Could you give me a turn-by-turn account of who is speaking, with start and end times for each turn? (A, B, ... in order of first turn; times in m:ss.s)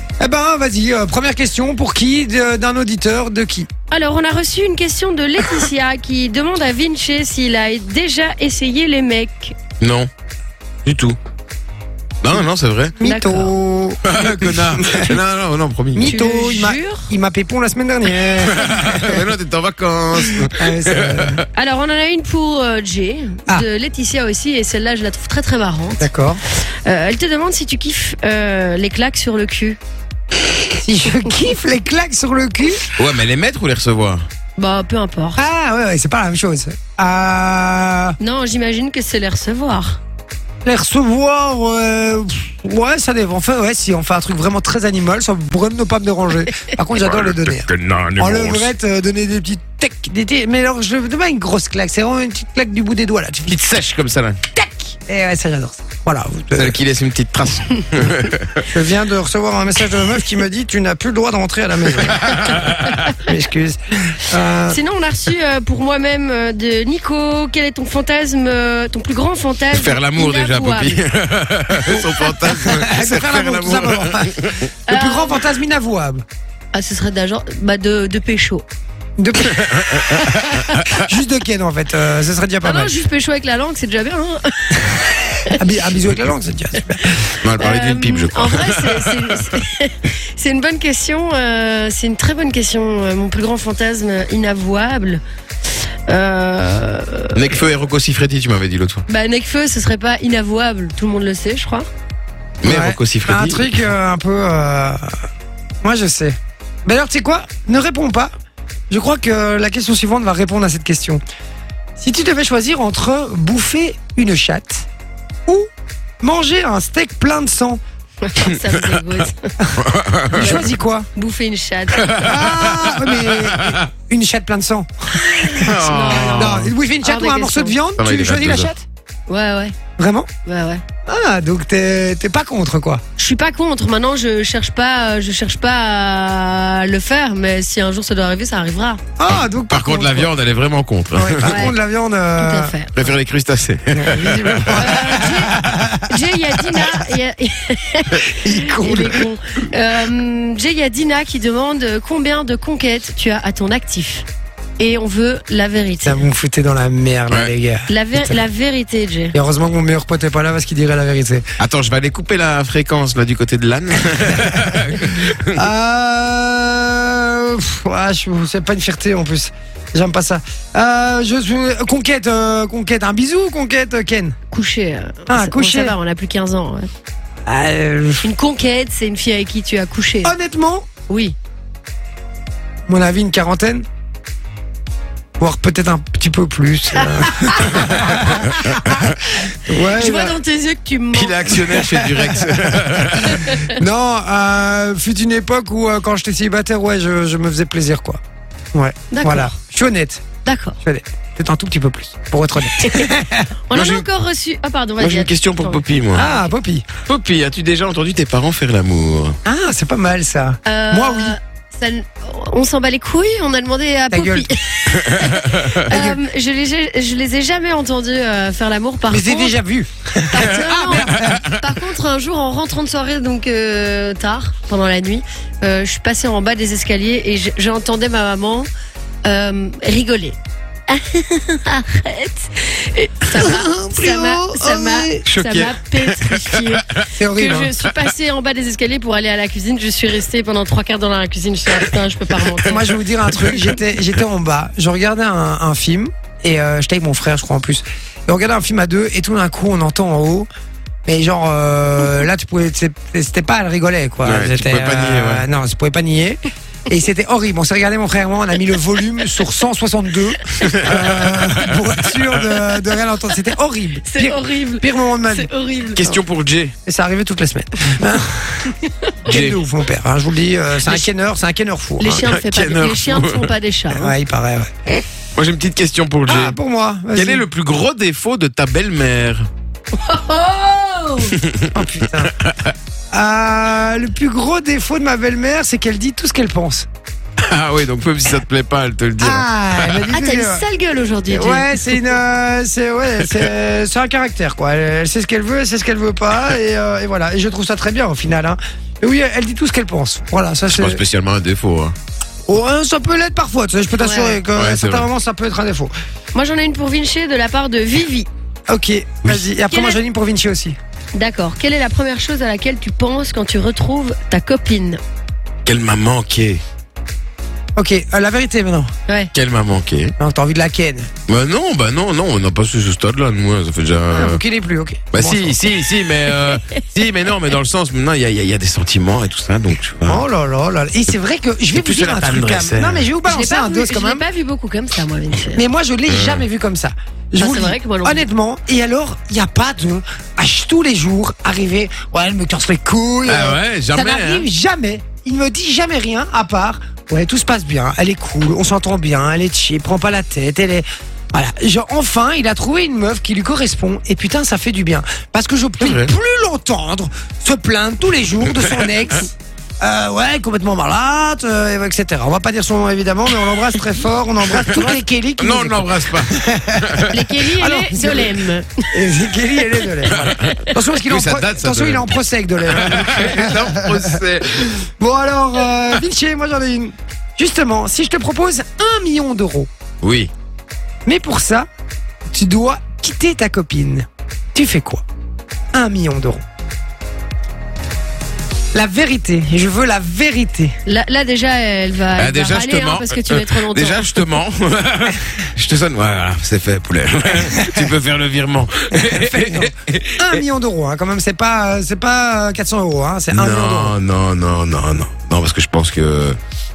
0:00.2-0:03.7 A
0:03.9-0:09.6 B
0:09.8-0:10.1 C
0:10.8-0:11.2 C
0:12.2-0:13.0 C
0:13.0-0:15.2 A
0:13.0-0:13.5 B
0:14.0-0:16.2 C
0:16.0-0:18.8 A
0:16.0-0:17.1 B
0:18.4-0:21.5 C
0:18.7-0:19.2 B
0:20.6-0:21.4 A
0:21.6-0:29.8 B
0:26.0-0:26.4 A
0:30.7-0:32.9 A
0:31.1-0:31.3 B
0:33.0-0:34.2 C
0:34.6-0:35.4 B
0:35.4-0:38.2 A
0:38.2-0:40.0 B
0:40.6-0:47.7 A
0:47.0-0:48.7 C
0:48.2-0:53.6 A
0:53.5-0:54.4 C
0:54.5-0:56.8 A
0:56.6-0:58.7 C
0:58.7-1:04.8 A
1:02.0-1:03.1 C
1:04.7-1:11.0 B
1:09.7-1:14.7 C
1:12.4-1:16.2 A
1:14.9-1:15.5 B
1:16.7-1:18.7 B
1:19.2-1:19.6 A
1:19.6-1:21.0 C
1:20.1-1:20.9 B
1:20.7-1:23.0 A
1:22.6-1:25.7 B
1:25.6-1:27.4 A
1:27.4-1:29.6 C
1:27.6-1:35.2 B
1:36.1-1:37.6 B
1:37.4-1:39.0 C
1:39.1-1:41.9 B
1:42.6-1:43.8 C
1:42.6-1:45.0 A
1:45.8-1:48.3 A
1:48.9-1:51.2 A
1:52.0-1:54.9 A
1:56.2-1:57.8 A
1:58.2-1:59.5 B
1:58.7-1:59.0 C
1:59.8-2:00.7 C
2:00.4-2:01.1 A
2:00.4-2:02.5 B
2:01.9-2:03.8 C
2:02.2-2:05.7 A
2:05.2-2:07.8 B
2:05.5-2:06.7 C
2:06.3-2:08.8 A
2:08.0-2:08.7 C
2:09.3-2:09.8 B
2:10.0-2:10.3 A
2:10.5-2:10.8 B
2:11.1-2:13.0 A
2:13.2-2:19.0 B
2:19.2-2:20.3 A
2:19.3-2:21.6 C
2:21.2-2:22.7 A
2:21.4-2:21.8 B
2:22.4-2:23.0 B
2:23.0-2:25.0 C
2:23.9-2:26.1 A
2:24.0-2:34.3 B
2:28.3-2:29.2 A
2:34.8-2:36.3 B
2:36.0-2:38.4 A
2:37.9-2:39.4 B
2:39.3-2:41.4 A
2:41.6-2:45.6 C
2:45.5-2:54.4 A
2:54.5-2:56.9 B
2:55.3-2:56.0 A
2:57.5-2:58.3 A
2:58.2-3:00.3 B
3:00.2-3:00.9 A
3:01.1-3:01.4 B
3:02.9-3:03.8 A
3:05.4-3:10.4 A
3:07.0-3:08.0 B
3:07.7-3:09.2 C
3:09.4-3:11.7 B
3:11.1-3:13.5 C
3:11.7-3:12.5 A
3:13.0-3:18.2 A
3:13.4-3:13.7 B
3:18.7-3:20.2 A
3:19.1-3:19.6 B
3:20.5-3:20.8 B
3:20.8-3:23.5 A
3:22.8-3:23.1 B
3:23.7-3:26.5 B
3:23.7-3:24.1 C
3:25.0-3:26.2 C
3:26.2-3:26.8 A
3:27.1-3:29.4 C
3:29.4-3:31.3 A
3:30.7-3:39.6 B
3:34.1-3:34.5 A
3:35.0-3:35.8 C
3:35.9-3:36.2 A
3:39.1-3:41.5 A
3:40.3-3:48.7 B
3:40.9-3:41.6 C
3:49.2-3:50.4 B
3:50.9-4:03.3 B
3:53.3-3:55.2 A
3:55.3-3:57.0 C
3:57.1-3:57.7 A
4:02.6-4:10.5 A
4:11.1-4:25.5 A
4:14.2-4:15.4 C
4:20.6-4:22.4 C
4:24.1-4:26.2 B
4:26.0-4:26.8 C
4:26.8-4:28.7 A
4:28.7-4:29.4 B
4:29.3-4:32.2 A
4:29.3-4:29.6 C
4:30.8-4:31.1 B
4:32.0-4:34.1 B
4:32.0-4:33.5 C
4:33.9-4:34.7 A
4:35.4-4:36.6 C
4:36.3-4:37.5 A
4:37.1-4:39.5 C
4:40.0-4:41.4 B
4:41.3-4:41.8 C
4:41.7-4:42.4 A
4:42.4-4:42.8 C
4:43.1-4:46.9 A
4:47.4-4:50.1 C
4:49.2-4:50.6 A
4:50.1-4:52.0 B
4:51.3-5:01.0 A
4:53.2-4:53.5 C
5:00.7-5:02.0 C
5:02.5-5:05.9 A
5:04.0-5:04.4 B
5:04.5-5:05.1 C
5:06.3-5:08.3 B
5:08.7-5:10.8 A
5:09.7-5:10.0 B
5:11.2-5:15.0 B
5:15.6-5:16.6 C
5:17.8-5:18.9 A
5:19.3-5:20.1 C
5:20.2-5:21.1 A
5:21.3-5:24.4 C
5:24.1-5:25.6 A
5:25.1-5:30.2 C
5:30.1-5:34.2 A
5:31.7-5:33.1 C
5:33.2-5:35.6 B
5:35.5-6:08.4 A
5:36.1-5:36.5 C
5:37.4-5:38.2 B
5:43.3-5:44.5 C
5:55.8-5:56.1 C
6:04.5-6:07.3 C
6:07.1-6:09.2 B
6:08.9-6:14.2 A
6:10.1-6:12.1 C
6:12.6-6:14.7 C
6:14.8-6:19.7 A
6:20.0-6:20.3 C
6:21.1-6:21.7 A
6:22.3-6:25.0 A
6:25.7-6:26.4 A
6:28.7-6:30.8 A
6:30.9-6:34.3 B
6:32.2-6:40.4 C
6:38.9-6:44.0 A
6:43.3-6:46.4 C